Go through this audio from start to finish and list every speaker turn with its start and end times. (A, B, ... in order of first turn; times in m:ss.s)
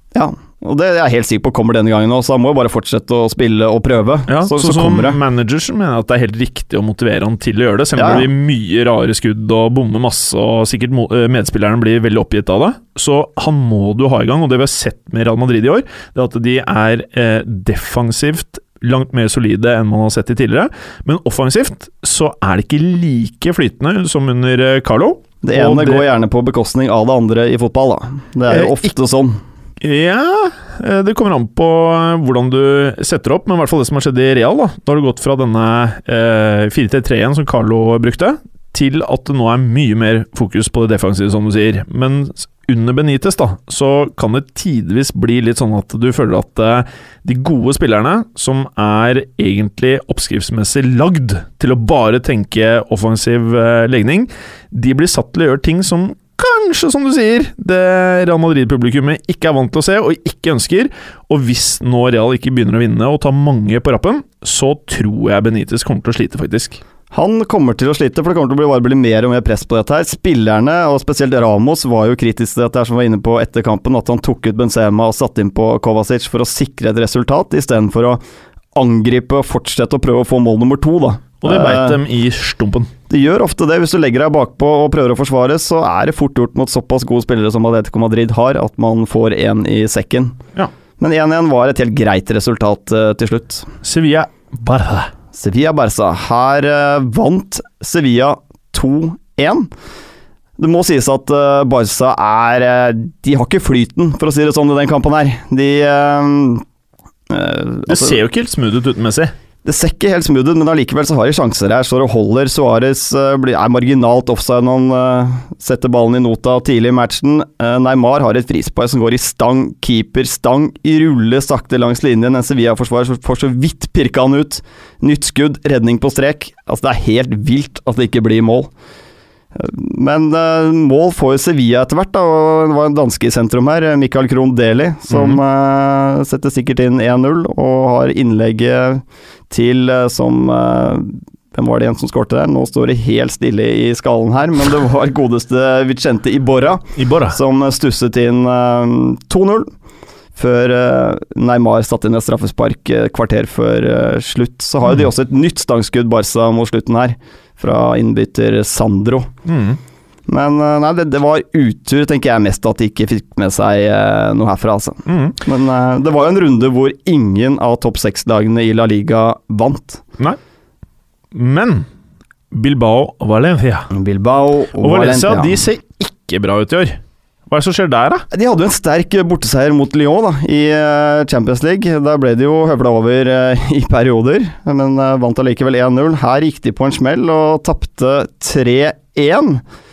0:00.1-0:05.2 A
0:04.3-0:26.0 B
0:07.9-0:08.3 A
0:25.4-0:29.4 A
0:28.5-0:28.8 B
0:29.8-1:06.8 B
1:07.1-1:18.2 A
1:18.7-1:22.0 A
1:21.4-1:22.9 B
1:23.1-1:30.4 A
1:31.0-1:33.7 A
1:33.8-1:35.1 B
1:35.4-1:39.7 A
1:40.6-1:46.6 A
1:47.3-1:48.2 A
1:47.9-1:49.3 B
1:49.6-2:08.7 A
2:09.6-2:29.7 A
2:15.1-2:15.4 B
2:27.0-2:27.4 B
2:30.4-2:39.3 A
2:39.4-2:39.8 B
2:40.3-2:50.0 A
2:45.1-2:45.4 B
2:51.3-2:51.9 B
2:52.5-2:53.9 B
2:53.9-2:55.7 A
2:54.8-2:58.2 B
2:58.3-3:09.6 A